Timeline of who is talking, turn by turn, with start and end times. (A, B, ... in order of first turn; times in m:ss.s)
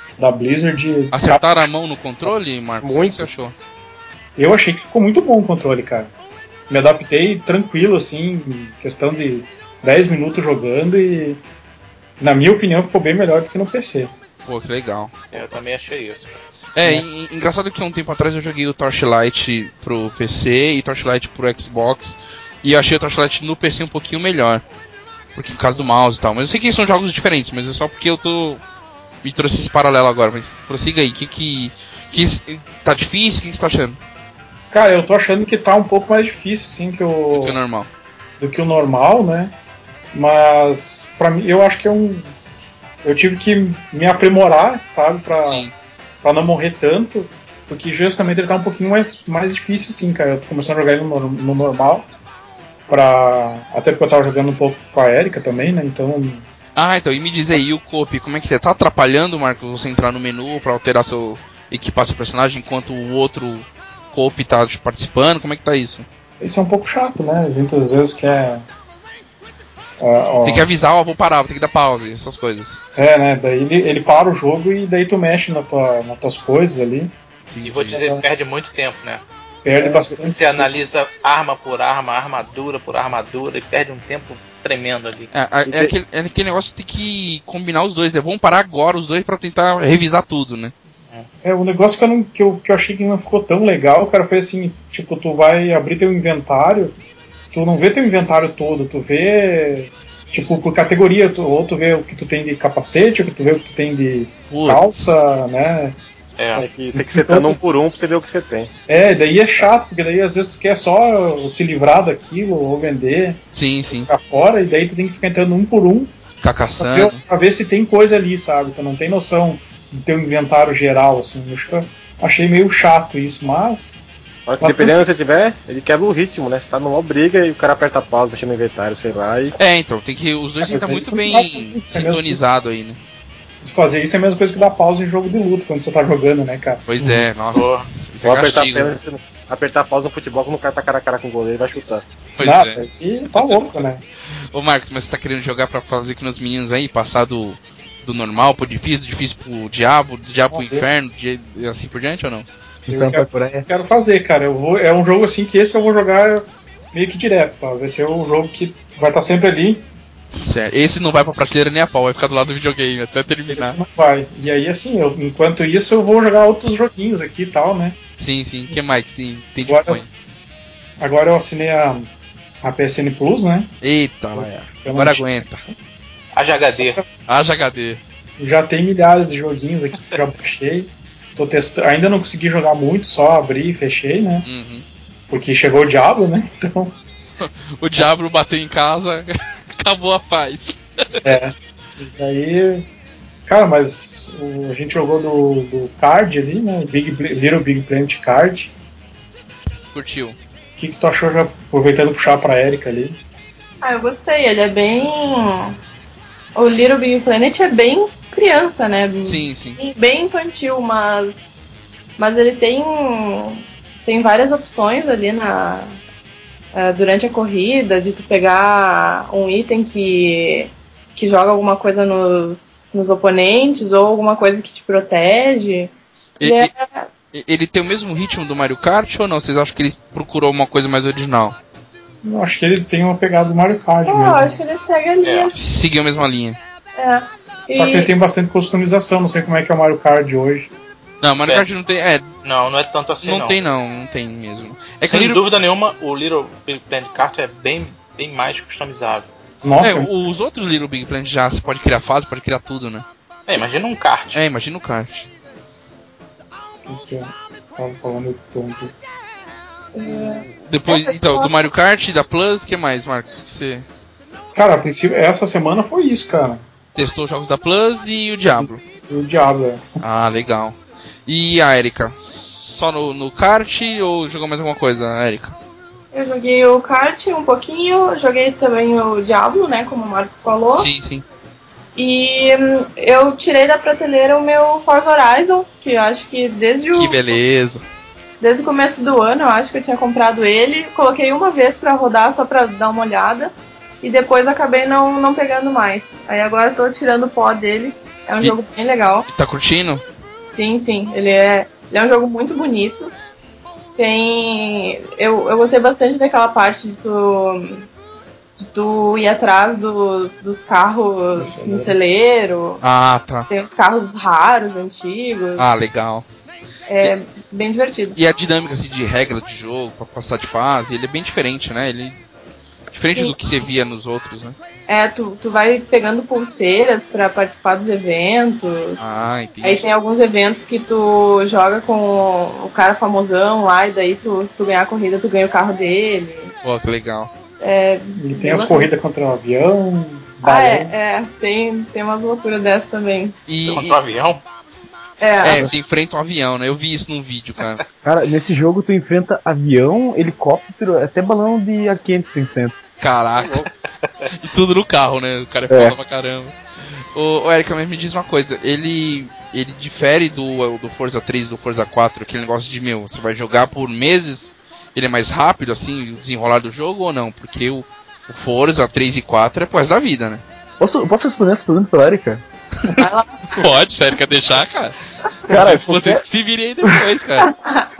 0:00.2-0:01.6 A
0:01.1-0:03.5 B
0:02.8-0:03.3 C
0:04.4-0:06.1 A
0:06.7-0:11.4 A
0:12.2-0:14.1 A
0:14.4-0:15.5 B
0:15.3-0:16.4 D
0:16.8-0:24.6 B
0:25.3-0:28.6 B
0:29.2-0:34.0 B
0:34.7-0:37.6 A
0:37.3-0:37.9 B
0:38.4-0:39.5 A
0:40.1-0:42.3 A
0:43.0-0:45.6 A
0:45.4-0:45.7 B
0:46.2-0:52.1 A
0:52.9-0:56.4 A
0:56.8-1:06.0 B
1:06.4-1:08.6 A
1:10.0-1:10.6 A
1:10.4-1:12.8 B
1:13.0-1:17.1 A
1:17.5-1:18.0 B
1:17.6-1:19.2 D
1:17.9-1:18.2 A
1:19.6-1:20.7 A
1:20.0-1:25.3 D
1:25.3-1:30.7 B
1:25.6-1:25.9 C
1:31.4-1:36.9 A
1:37.5-1:45.9 A
1:44.5-1:45.1 B
1:46.4-1:46.6 D
1:46.6-1:47.5 A
1:46.6-1:48.7 C
1:48.9-1:53.4 A
1:53.5-1:54.1 B
1:54.0-1:56.1 A
1:56.4-1:57.2 B
1:56.8-2:04.0 A
2:04.5-2:09.5 C
2:04.6-2:05.0 A
2:09.6-2:13.0 B
2:10.6-2:12.4 A
2:13.6-2:16.8 A
2:16.9-2:18.9 B
2:17.5-2:17.9 D
2:18.2-2:22.0 C
2:22.4-2:32.4 B
2:22.4-2:24.0 A
2:30.5-2:30.8 A
2:32.9-2:33.7 E
2:32.9-2:39.8 A
2:40.4-2:43.8 B
2:43.5-2:48.0 A
2:48.2-2:50.1 B
2:49.7-2:50.0 A
2:51.0-2:52.1 A
2:52.6-2:53.7 A
2:53.8-2:55.6 B
2:54.3-2:55.3 A
2:56.3-2:57.0 D
2:57.3-2:58.0 B
2:58.4-3:04.4 A
3:04.4-3:04.8 B
3:05.3-3:06.9 A
3:07.4-3:11.2 B
3:11.2-3:12.8 A
3:13.4-3:18.7 A
3:19.9-3:20.4 B
3:20.8-3:23.2 A
3:23.8-3:25.8 F
3:26.5-3:31.5 F
3:29.2-3:29.8 B
3:32.2-3:35.9 F
3:36.7-3:47.1 F
3:46.4-3:46.7 B
3:47.3-3:51.6 B
3:52.2-3:54.6 A
3:54.0-3:55.6 F
3:55.2-3:55.5 D
3:55.5-3:56.6 B
3:57.0-3:58.1 F
3:57.7-4:00.7 A
4:01.2-4:02.3 B
4:02.4-4:03.6 D
4:03.2-4:05.4 B
4:05.1-4:09.3 D
4:09.6-4:10.1 A
4:09.8-4:13.0 B
4:13.5-4:14.4 D
4:14.3-4:15.3 B
4:16.9-4:18.9 A
4:19.9-4:21.5 F
4:20.4-4:23.8 B
4:24.5-4:26.6 A
4:26.9-4:28.8 B
4:28.6-4:29.8 A
4:30.0-4:35.6 B
4:36.1-4:40.9 F
4:40.7-4:41.2 B
4:42.0-4:47.3 F
4:46.9-4:47.8 B
4:48.4-4:59.3 F
4:59.3-5:00.0 B
5:00.5-5:03.1 F
5:04.0-5:07.8 F
5:08.6-5:12.8 F
5:11.3-5:12.0 A
5:12.8-5:13.5 B
5:13.5-5:15.6 F
5:15.6-5:16.2 B
5:16.9-5:18.2 F
5:18.1-5:22.2 B
5:22.9-5:24.6 B
5:24.9-5:29.1 F
5:29.0-5:29.8 B
5:29.6-5:36.5 F
5:36.6-5:37.3 B
5:37.6-5:38.9 F
5:38.2-5:40.9 A
5:40.4-5:43.4 F
5:43.5-5:44.0 B
5:43.6-5:44.4 D
5:45.2-5:45.7 F
5:45.4-5:47.8 B
5:48.0-5:52.8 E
5:53.0-5:53.6 B
5:53.4-5:53.7 C
5:54.3-5:56.6 B
5:55.7-5:56.0 E
5:57.1-6:10.4 B
6:10.8-6:12.4 E
6:12.8-6:17.5 B
6:13.0-6:13.4 F
6:15.5-6:16.2 E
6:17.4-6:17.9 F